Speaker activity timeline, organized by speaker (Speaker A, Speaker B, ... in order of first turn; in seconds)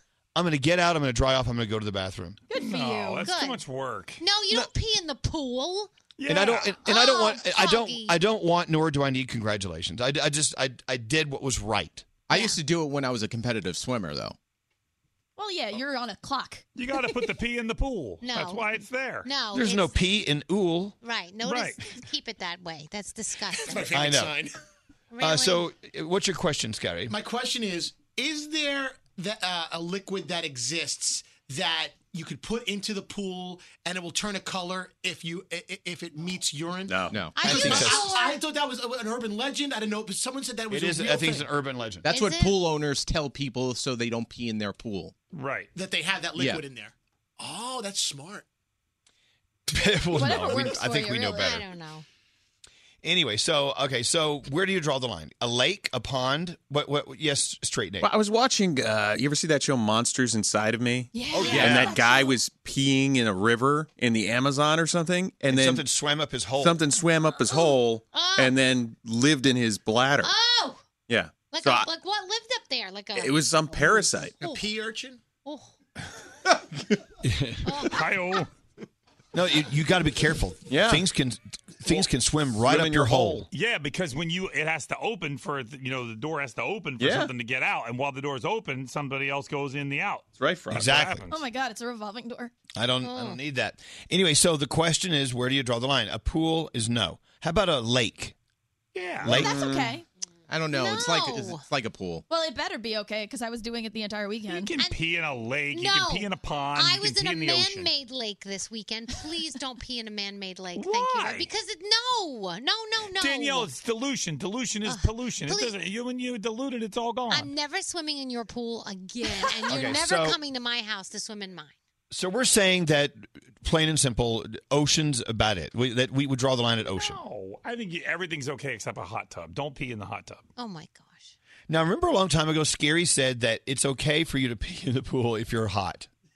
Speaker A: 0.3-2.4, 6.3-12.1, 19.5-21.0, 23.9-24.4, 25.2-27.1, 37.4-38.1, 40.7-42.1, 49.7-51.7, 53.0-58.1, 61.3-62.0, 65.5-66.8, 77.3-77.6, 79.3-83.4, 90.7-91.2, 92.8-98.3, 99.2-99.5, 119.7-120.4, 122.1-127.2, 131.7-136.1
Speaker B: 2.5-3.3, 15.4-17.1, 50.1-51.4, 61.1-62.4, 91.3-92.5, 99.3-100.0, 102.3-104.7
Speaker C: 2.5-4.2, 6.2-6.8, 16.8-19.3, 21.4-21.9, 45.3-45.7, 77.9-78.5, 83.5-91.3, 98.9-99.4, 104.5-107.9, 110.7-111.5, 113.1-117.5, 127.0-130.5
Speaker D: 3.2-3.6, 4.2-5.9, 6.8-8.2, 12.3-12.6, 18.2-18.7, 19.2-19.9, 21.0-23.9, 25.1-25.7, 37.3-38.4, 42.1-42.6, 51.2-52.0, 67.5-68.5, 70.2-70.8, 71.4-74.7, 75.3-75.7, 77.6-78.0, 93.0-93.4, 100.7-101.6, 105.7-113.7, 114.8-115.7, 117.3-121.8, 130.6-131.3
Speaker E: 12.3-14.3, 37.1-37.9, 42.0-45.1, 46.4-46.6, 100.5-102.2
Speaker F: 23.6-24.5, 27.1-41.5, 45.7-48.5, 74.4-75.3
Speaker G: 36.9-37.3, 58.0-65.9, 66.6-70.3, 71.1-71.9, 73.1-74.4, 80.7-81.1, 81.8-82.1, 82.6-83.5, 87.0-87.3, 90.4-91.0, 99.2-100.0